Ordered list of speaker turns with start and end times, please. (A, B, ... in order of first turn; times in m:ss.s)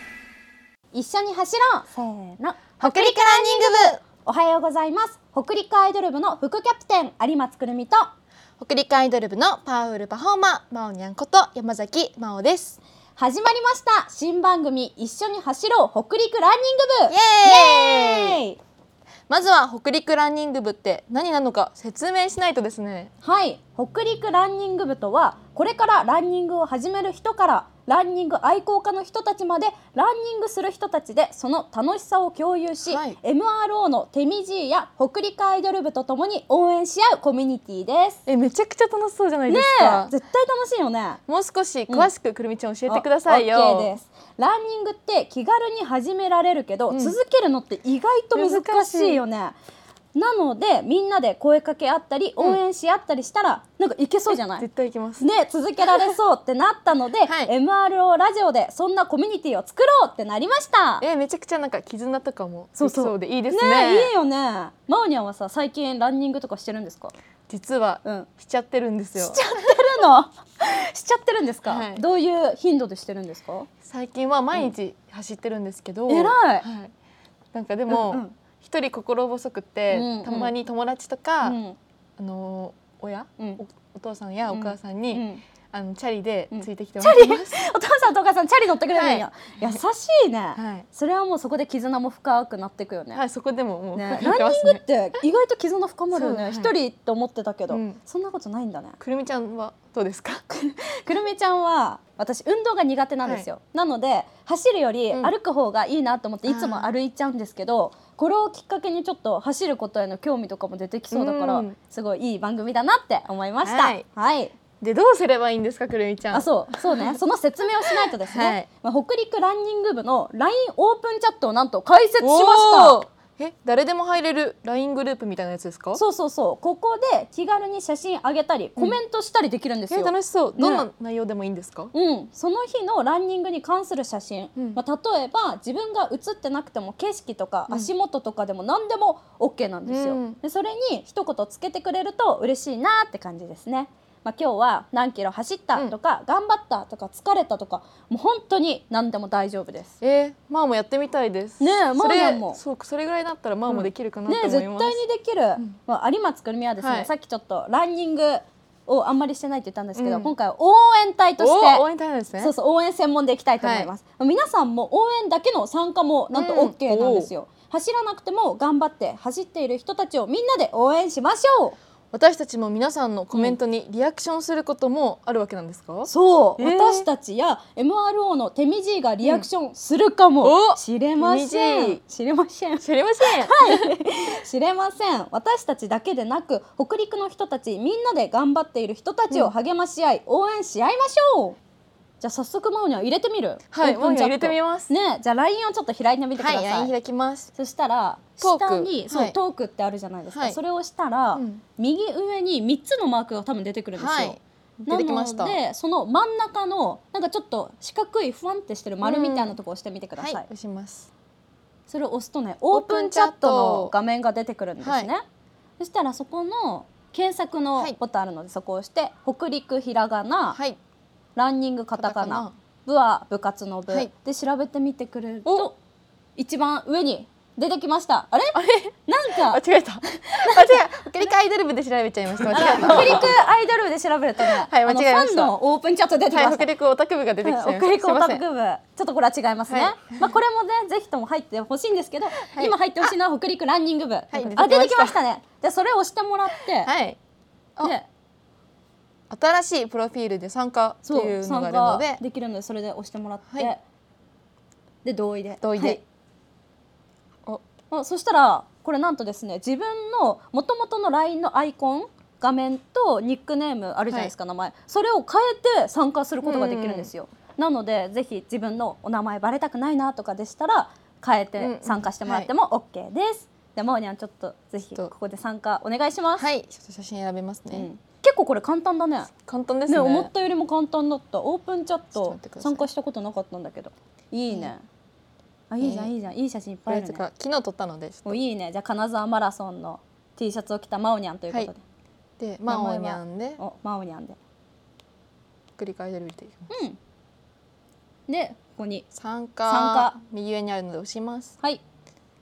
0:00.9-0:08.1 A
0:02.8-0:04.0 B
0:08.6-0:12.8 B
0:13.2-0:18.6 A
0:17.1-0:18.4 B
0:19.3-0:23.1 B
0:23.2-0:38.2 A
0:32.9-0:33.2 B
0:38.3-0:40.1 B
0:39.5-0:41.2 A
0:41.3-0:43.9 B
0:42.9-0:49.6 A
0:46.9-0:47.2 B
0:48.3-0:49.2 B
0:50.1-0:54.7 A
0:54.3-0:55.3 B
0:55.2-1:01.1 A
0:55.8-0:56.2 B
0:57.2-0:57.5 B
1:01.0-1:04.1 B
1:02.8-1:07.1 A
1:07.5-1:09.5 B
1:08.0-1:08.3 A
1:09.2-1:13.7 A
1:11.6-1:12.0 B
1:13.8-1:16.9 B
1:16.1-1:16.7 A
1:17.5-1:21.6 B
1:17.9-1:18.4 A
1:19.9-1:20.6 A
1:21.4-1:21.8 A
1:22.2-1:27.6 B
1:24.5-1:25.4 A
1:26.5-1:33.2 A
1:28.9-1:29.8 B
1:30.6-1:30.9 B
1:33.1-1:34.8 B
1:34.0-1:39.0 A
1:36.1-1:36.8 B
1:37.7-1:38.0 B
1:39.0-1:40.4 B
1:40.5-1:54.5 A
1:46.4-1:46.9 B
1:51.1-1:51.8 B
1:53.6-1:54.0 B
1:54.8-1:57.2 B
1:56.3-2:03.0 A
1:57.8-1:58.7 B
2:02.2-2:06.0 B
2:05.9-2:10.9 A
2:09.9-2:11.9 B
2:11.9-2:30.0 A
2:19.9-2:20.4 B
2:30.0-2:35.0 B
2:31.6-2:32.6 A
2:33.7-2:41.9 A
2:36.8-2:37.1 B
2:40.0-2:40.3 B
2:41.4-2:42.5 B
2:42.4-2:51.8 A
2:43.6-2:43.9 B
2:46.3-2:47.3 B
2:52.1-2:57.1 B
2:53.3-2:53.6 A
2:56.1-3:11.6 A
2:59.2-2:59.5 B
3:00.4-3:02.0 B
3:02.8-3:04.0 B
3:12.2-3:16.9 A
3:13.7-3:14.9 B
3:16.4-3:17.5 B
3:17.6-3:30.5 A
3:18.4-3:19.4 B
3:20.3-3:20.6 B
3:21.4-3:21.6 B
3:24.0-3:25.6 B
3:29.0-3:29.6 B
3:30.2-3:31.1 B
3:31.9-3:35.2 A
3:32.7-3:33.9 B
3:34.8-3:35.1 B
3:35.8-3:40.6 A
3:40.5-3:40.8 B
3:41.4-3:45.8 A
3:42.0-3:42.5 B
3:45.4-3:45.7 B
3:46.4-3:50.8 A
3:48.5-3:53.4 B
3:52.5-3:56.7 A
3:54.4-3:55.6 B
3:56.3-3:58.4 B
3:57.4-4:06.9 A
3:59.7-4:00.1 B
4:02.4-4:03.1 B
4:04.3-4:05.2 B
4:06.8-4:07.2 B
4:07.8-4:08.1 A
4:09.3-4:12.2 B
4:11.0-4:13.8 A
4:15.0-4:16.0 A
4:15.6-4:16.0 B
4:17.9-4:36.5 A
4:26.4-4:27.1 B
4:31.6-4:32.5 B
4:36.4-4:37.9 B
4:37.7-4:39.3 A
4:39.5-4:40.3 B
4:39.9-4:44.8 A
4:42.2-4:42.9 B
4:45.7-4:47.2 A
4:45.8-4:46.1 B
4:46.9-4:48.4 B
4:48.2-4:51.8 A
4:52.4-4:53.6 B
4:52.7-4:54.4 A
4:55.8-4:56.7 B
4:56.7-4:57.0 A
4:58.3-4:59.1 A
4:59.1-5:01.6 B
4:59.7-5:00.2 A